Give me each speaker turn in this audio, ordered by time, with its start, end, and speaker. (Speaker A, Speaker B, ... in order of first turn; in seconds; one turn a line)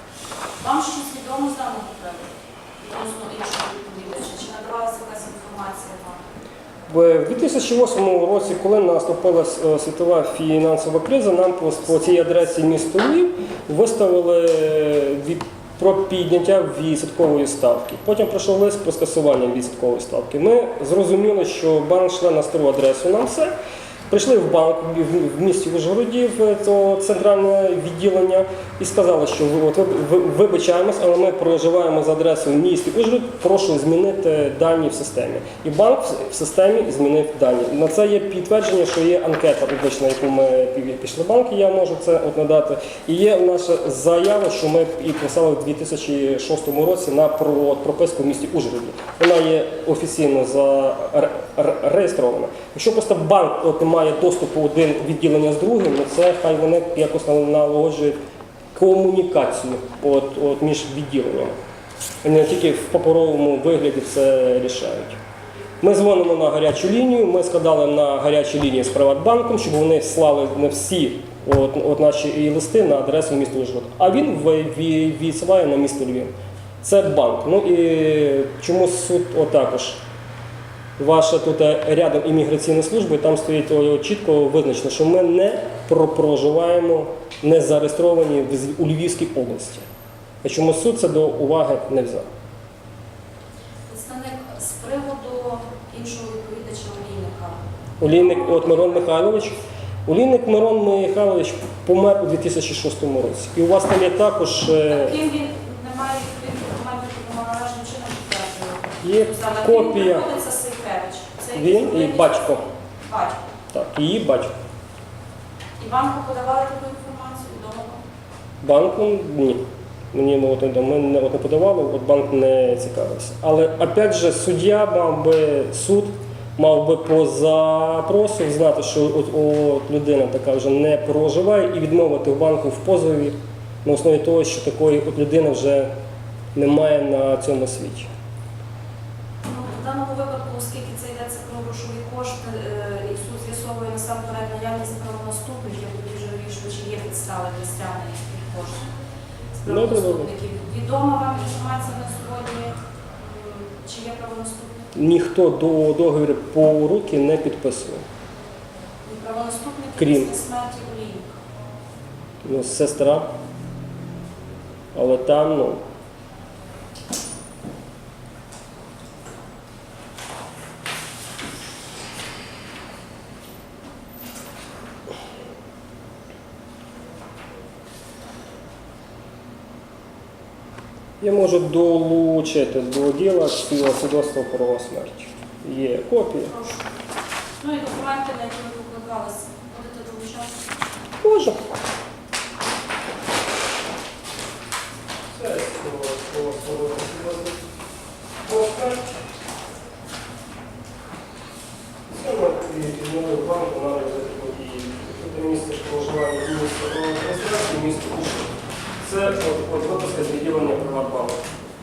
Speaker A: 0.6-6.2
Speaker B: 6.9-23.5
Speaker B: 24.1-58.2
Speaker B: 58.8-61.6
Speaker B: 62.2-65.2
Speaker B: 65.8-80.0
Speaker B: 81.0-89.9
Speaker B: 90.4-92.2
Speaker A: 93.9-99.1
Speaker B: 98.0-105.2
Speaker A: 104.9-113.4
Speaker B: 109.0-110.3
Speaker B: 111.5-112.7
Speaker B: 113.7-114.5
Speaker A: 115.8-118.0
Speaker B: 118.6-119.6
Speaker B: 120.1-135.9
Speaker B: 136.6-138.1
Speaker A: 139.4-148.9
Speaker A: 149.5-154.9
Speaker B: 149.7-150.3
Speaker B: 154.9-158.0
Speaker A: 159.0-161.4
Speaker B: 160.0-160.3
Speaker B: 162.4-163.3
Speaker B: 164.9-165.8
Speaker B: 181.2-186.5
Speaker A: 186.4-187.0
Speaker A: 187.6-190.7
Speaker B: 191.2-191.6
Speaker B: 195.3-197.6
Speaker B: 198.4-199.1
Speaker B: 202.1-211.4